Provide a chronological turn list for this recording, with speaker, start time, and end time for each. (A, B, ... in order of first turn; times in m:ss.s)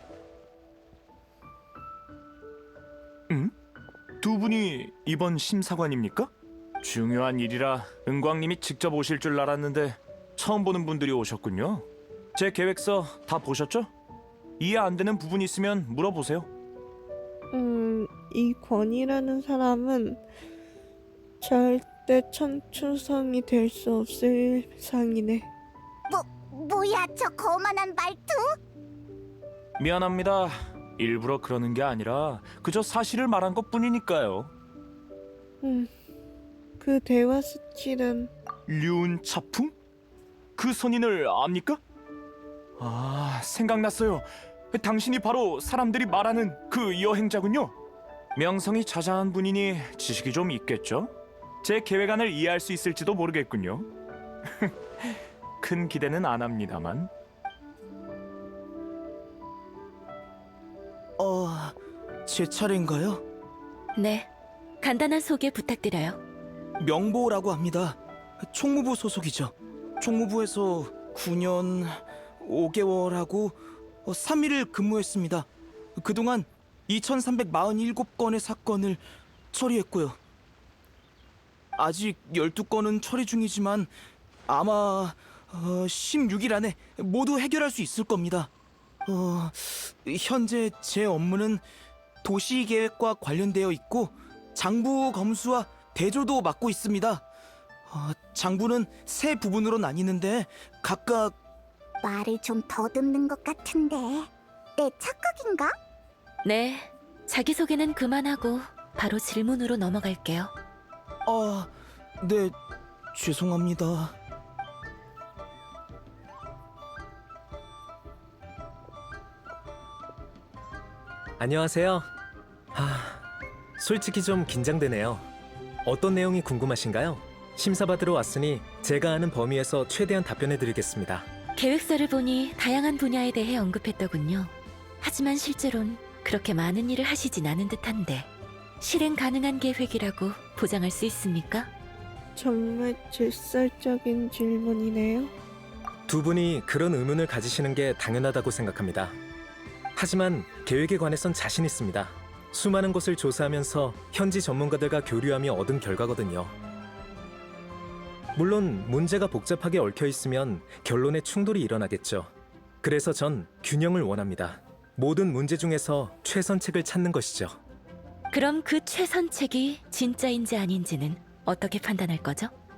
0:04.2-0:06.3 A
0:06.8-0:13.9 A
0:14.6-0:16.5 A
0:17.5-0:20.2 B
0:21.4-0:25.5 B
0:26.1-0:28.4 C
0:29.8-0:34.5 A
0:35.6-0:35.9 B
0:36.8-0:38.3 B
0:38.7-0:39.7 A
0:40.6-0:41.8 A
0:42.8-0:47.7 A
0:48.4-0:51.1 A
0:51.6-0:53.9 A
0:55.6-0:57.1 A
1:01.2-1:03.2 D
1:04.0-1:04.3 E
1:04.8-1:06.2 E
1:06.8-1:20.2 D
1:21.8-1:23.9 D
1:24.5-1:28.5 D
1:29.0-1:31.6 D
1:32.2-1:37.2 D
1:37.9-1:41.4 D
1:42.0-1:45.7 C
1:46.4-1:50.5 E
1:51.3-1:52.6 D
1:53.1-1:54.2 D
2:01.4-2:02.1 F
2:02.7-2:03.2 F
2:03.8-2:05.3 F
2:05.8-2:11.3 F
2:11.6-2:18.3 E
2:18.8-2:21.7 E
2:22.4-2:25.3 B
2:26.1-2:29.2 F
2:29.9-2:36.5 F
2:38.3-2:47.6 F
2:48.3-2:52.5 E